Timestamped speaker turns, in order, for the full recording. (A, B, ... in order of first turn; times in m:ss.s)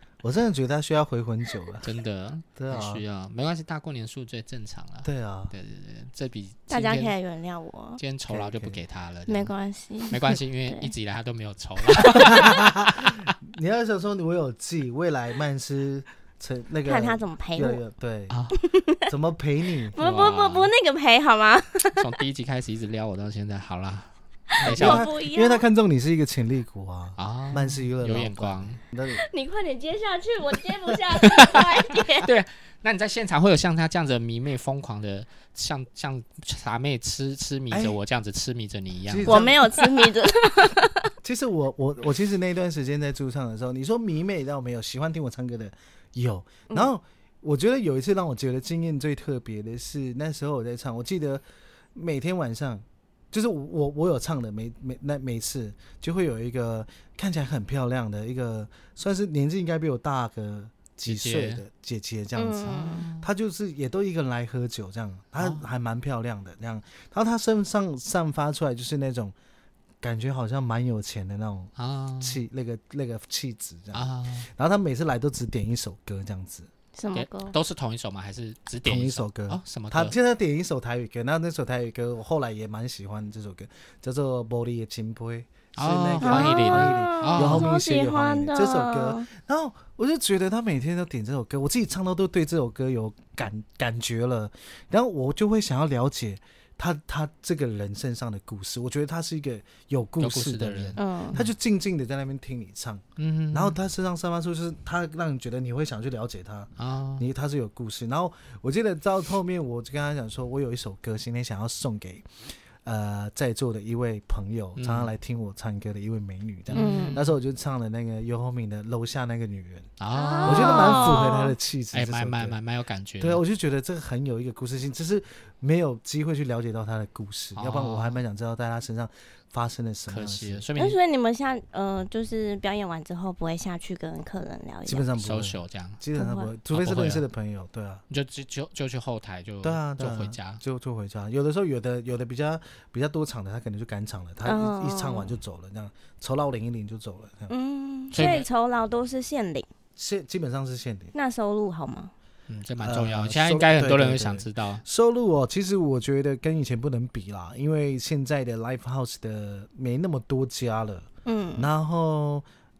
0:00.2-0:01.9 A
0:01.8-0:07.1 B
0:02.6-0:03.0 A
0:05.0-0:05.5 A
0:06.7-0:08.0 C
0:08.0-0:09.5 B
0:08.3-0:08.8 A
0:09.3-0:10.9 C
0:10.1-0:13.3 B
0:12.0-0:12.4 C
0:12.1-0:18.4 A
0:16.9-0:17.8 C
0:18.3-0:18.6 B
0:18.5-0:19.1 C
0:19.1-0:20.0 A
0:19.9-0:22.1 C
0:20.0-0:20.7 B
0:22.0-0:25.1 B
0:24.6-0:25.6 C
0:24.6-0:29.2 A
0:27.2-0:28.8 B
0:29.1-0:32.3 C
0:31.2-0:39.8 B
0:37.7-0:38.0 A
0:39.1-0:39.8 A
0:39.3-0:41.1 C
0:41.2-1:09.4 A
1:01.1-1:01.6 B
1:02.4-1:03.0 C
1:02.7-1:03.3 B
1:10.0-1:16.7 A
1:11.8-1:12.4 B
1:13.9-1:14.5 B
1:17.0-1:17.6 C
1:17.1-1:20.1 B
1:18.8-1:52.3 A
1:25.8-1:27.7 B
1:26.2-1:29.3 C
1:40.2-1:41.5 B
1:41.0-1:41.4 C
1:43.2-1:43.8 B
1:46.8-1:47.3 B
1:52.8-1:59.9 A
1:54.8-1:55.1 B
1:56.7-1:57.3 B
1:56.8-1:57.2 C
2:00.0-2:01.2 B
2:00.1-2:01.6 C
2:00.4-2:02.6 A
2:01.9-2:03.4 B
2:03.2-2:10.6 A
2:07.6-2:08.2 B
2:10.1-2:11.0 B
2:10.8-2:15.1 C
2:14.9-2:18.0 A
2:15.2-2:16.0 B
2:16.2-2:16.5 C
2:16.7-2:17.2 B
2:18.1-2:20.6 B
2:19.6-2:27.5 A
2:24.4-2:25.3 C
2:27.5-2:29.7 C
2:28.1-2:28.5 B
2:30.0-2:31.1 A
2:31.2-2:32.1 C
2:32.5-2:34.8 B
2:32.8-2:42.5 A
2:41.3-2:41.7 C